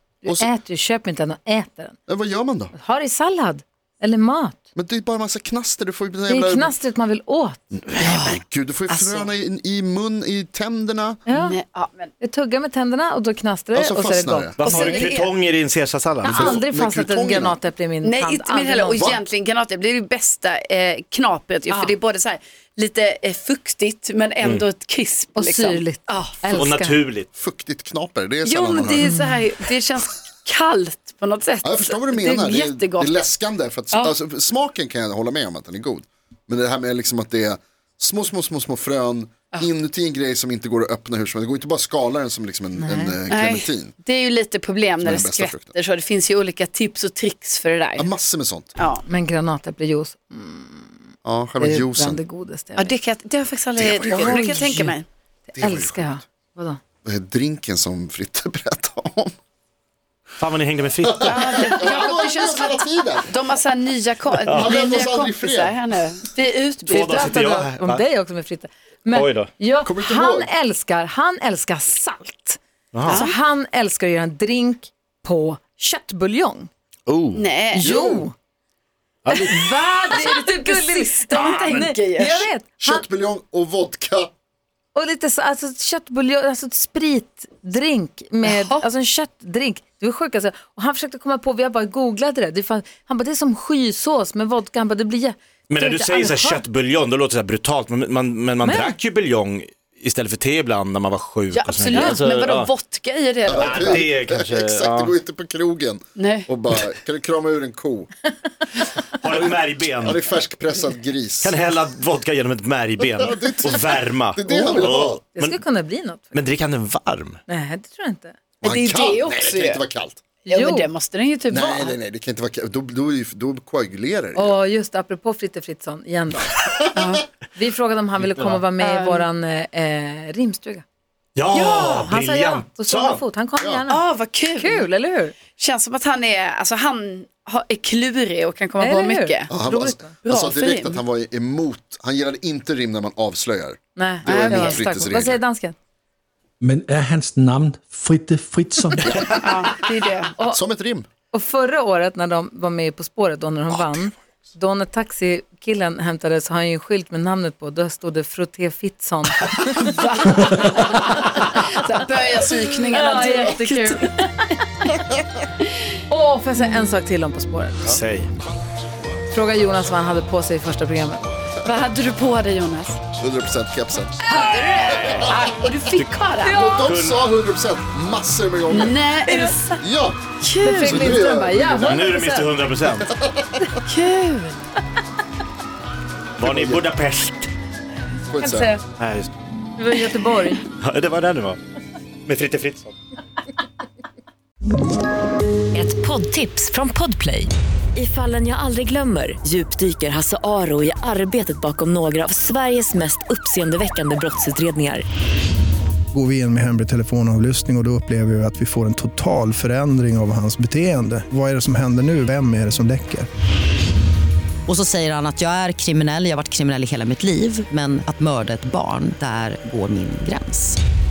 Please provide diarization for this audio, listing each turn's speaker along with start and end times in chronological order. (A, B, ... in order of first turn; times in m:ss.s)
0:00.2-0:02.0 A
0:00.2-0:00.5 B
0:02.1-0:02.7 B
0:02.7-0:04.6 A
0:04.8-0:06.8 B
0:06.3-0:07.6 A
0:07.7-0:11.2 B
0:08.0-0:09.3 C
0:11.3-0:11.6 A
0:11.3-0:12.1 C
0:12.2-0:15.1 A
0:13.7-0:14.6 B
0:14.6-0:16.6 D
0:14.6-0:15.3 C
0:16.2-0:19.2 A
0:16.2-0:17.6 B
0:18.0-0:26.5 C
0:19.0-0:19.2 B
0:21.7-0:22.0 A
0:25.4-0:27.0 A
0:26.5-0:27.3 D
0:27.4-0:29.1 B
0:28.4-0:33.2 C
0:29.0-0:29.4 A
0:31.6-0:43.9 B
0:42.8-0:43.2 A
0:43.3-0:48.1 C
0:45.0-0:45.7 B
0:48.0-0:48.8 B
0:48.8-0:49.0 C
0:49.1-0:53.0 A
0:51.2-0:52.2 B
0:52.8-0:55.1 C
0:53.8-0:54.4 B
0:54.0-0:55.0 A
0:55.5-0:56.2 B
0:55.6-0:56.8 A
0:57.0-0:59.3 B
1:00.4-1:01.8 D
1:01.0-1:03.4 B
1:01.2-1:07.4 C
1:04.5-1:04.8 D
1:04.5-1:05.8 B
1:06.9-1:16.7 A
1:06.9-1:08.0 D
1:09.1-1:09.5 D
1:09.8-1:10.5 B
1:12.9-1:13.3 D
1:13.1-1:13.4 C
1:17.1-1:17.4 D
1:17.4-1:17.9 C
1:17.8-1:18.3 B
1:17.8-1:18.3 A
1:19.2-1:19.8 D
1:19.3-1:23.0 A
1:20.0-1:22.4 C
1:22.4-1:24.3 B
1:24.9-1:36.7 A
1:28.4-1:28.8 C
1:35.7-1:42.7 D
1:38.6-1:39.0 A
1:41.5-1:43.8 C
1:43.5-1:48.1 B
1:43.6-1:45.2 D
1:46.2-1:46.5 C
1:49.2-1:50.2 D
1:50.0-1:51.6 B
1:51.4-1:55.6 D
1:53.0-1:55.2 B
1:54.5-1:56.4 A
1:56.3-1:57.4 D
1:57.5-1:58.4 A
1:58.6-1:59.8 C
1:58.6-2:00.2 B
2:00.5-2:00.9 A
2:00.5-2:02.0 C
2:01.5-2:04.6 B
2:04.4-2:06.6 A
2:07.0-2:07.2 C
2:07.5-2:10.8 A
2:08.2-2:08.6 D
2:08.8-2:09.3 C
2:11.4-2:13.2 D
2:11.5-2:15.4 A
2:13.6-2:13.8 B
2:13.9-2:14.9 C
2:15.6-2:19.5 C
2:18.8-2:20.2 A
2:19.5-2:25.4 B
2:20.2-2:21.0 C
2:24.0-2:25.8 A
2:24.2-2:24.8 C
2:26.6-2:29.5 E
2:29.4-2:30.3 C
2:30.5-2:31.1 B
2:31.3-2:39.8 A
2:39.8-2:44.1 C
2:40.5-2:41.5 A
2:42.9-2:44.6 A
2:46.1-2:48.0 A
2:47.8-2:48.3 D
2:49.3-2:51.2 A
2:51.6-2:53.0 C
2:53.2-2:54.2 B
2:54.3-2:55.1 A
2:54.3-2:56.7 C
2:55.1-2:55.5 B
2:55.9-2:56.2 D
2:56.4-2:56.8 A
2:56.5-2:59.0 B
2:56.8-2:57.2 D
2:58.7-2:59.6 C
2:59.3-2:59.8 A
2:59.8-3:00.2 B
3:00.4-3:01.2 C
3:00.6-3:02.5 A
3:00.8-3:02.0 B
3:01.8-3:03.1 D
3:03.0-3:03.7 B
3:03.9-3:04.6 C
3:06.4-3:07.5 D
3:06.4-3:06.8 B
3:08.3-3:08.8 B
3:08.4-3:08.8 A
3:09.0-3:09.3 D
3:09.8-3:10.6 A
3:10.8-3:11.6 D
3:12.3-3:13.0 D
3:15.7-3:25.0 F
3:26.1-3:33.3 G
3:34.7-3:40.8 H